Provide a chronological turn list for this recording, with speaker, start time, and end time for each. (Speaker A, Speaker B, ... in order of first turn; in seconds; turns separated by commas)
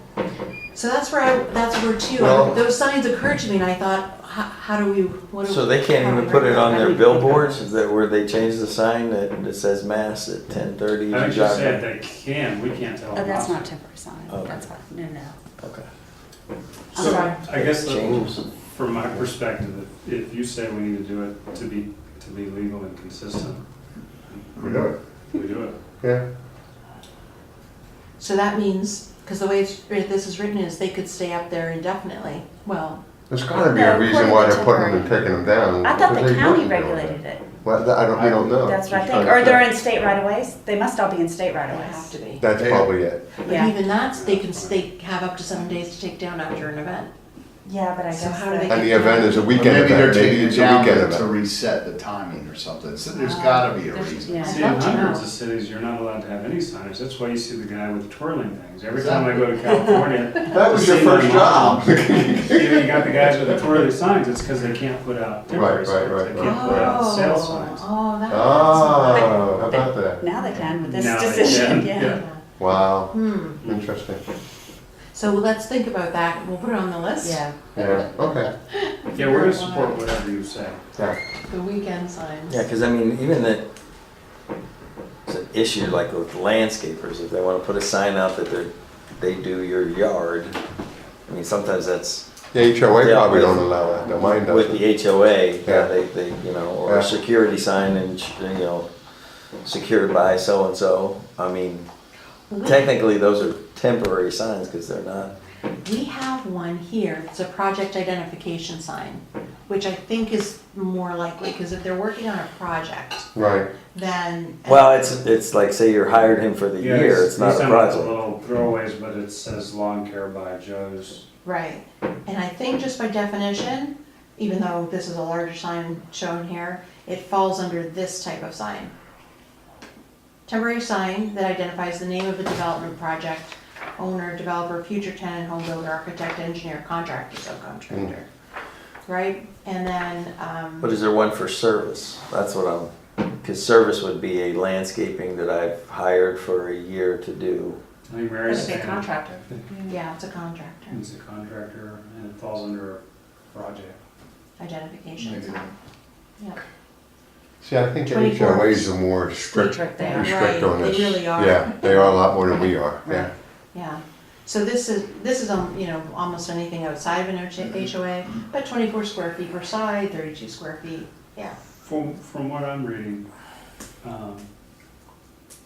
Speaker A: 0.7-7.0, Speaker B: 2.1-2.6, Speaker C: 5.4-11.8, Speaker D: 6.5-7.6, Speaker E: 11.1-13.7, Speaker D: 13.1-15.4, Speaker C: 14.3-14.7, Speaker C: 15.6-15.9, Speaker D: 16.9-17.4, Speaker C: 16.9-18.5, Speaker E: 17.0-23.6, Speaker A: 17.0-17.4, Speaker F: 24.6-24.9, Speaker B: 24.6-24.9, Speaker E: 25.3-25.8, Speaker A: 28.2-33.0, Speaker B: 33.3-39.6, Speaker D: 33.5-35.1, Speaker D: 35.8-37.5, Speaker F: 38.1-39.2, Speaker D: 38.6-42.2, Speaker A: 41.7-42.5, Speaker B: 42.4-43.3, Speaker F: 42.6-42.9, Speaker A: 43.4-47.1, Speaker D: 43.4-43.8, Speaker E: 44.1-44.8, Speaker D: 47.6-49.3, Speaker A: 48.1-49.5, Speaker B: 48.7-51.3, Speaker F: 49.5-55.1, Speaker D: 53.2-54.7, Speaker A: 54.3-55.2, Speaker E: 54.4-67.8, Speaker F: 59.0-59.5, Speaker B: 60.4-63.5, Speaker B: 65.5-67.0, Speaker A: 66.4-69.7, Speaker B: 68.3-70.2, Speaker D: 69.6-72.2, Speaker A: 70.4-70.7, Speaker E: 70.8-72.2, Speaker A: 71.6-72.4, Speaker B: 72.6-74.2, Speaker A: 73.1-73.6, Speaker E: 73.6-73.9, Speaker A: 75.1-80.1, Speaker D: 77.2-77.8, Speaker B: 77.7-78.5, Speaker E: 79.2-80.8, Speaker A: 81.5-82.6, Speaker C: 82.5-83.7, Speaker C: 85.3-90.6, Speaker C: 91.3-92.3, Speaker B: 92.5-94.8, Speaker C: 93.0-98.9, Speaker B: 95.7-95.9, Speaker B: 96.8-97.1, Speaker C: 99.6-101.9, Speaker A: 102.5-102.9, Speaker C: 102.6-105.3, Speaker A: 105.8-113.3, Speaker B: 113.3-113.7, Speaker A: 113.9-115.2, Speaker C: 114.7-118.2, Speaker E: 116.8-121.2, Speaker A: 121.4-128.9, Speaker A: 130.5-138.3, Speaker A: 139.1-140.9, Speaker C: 140.8-147.8, Speaker E: 148.1-149.6, Speaker A: 148.5-149.0, Speaker D: 148.5-150.0, Speaker A: 149.9-151.0, Speaker E: 150.9-154.0, Speaker A: 154.6-155.7, Speaker F: 155.2-155.7, Speaker B: 157.6-163.3, Speaker A: 158.1-158.9, Speaker D: 159.5-160.3, Speaker A: 160.0-162.2, Speaker A: 163.1-171.6, Speaker E: 171.8-173.2, Speaker E: 174.0-174.5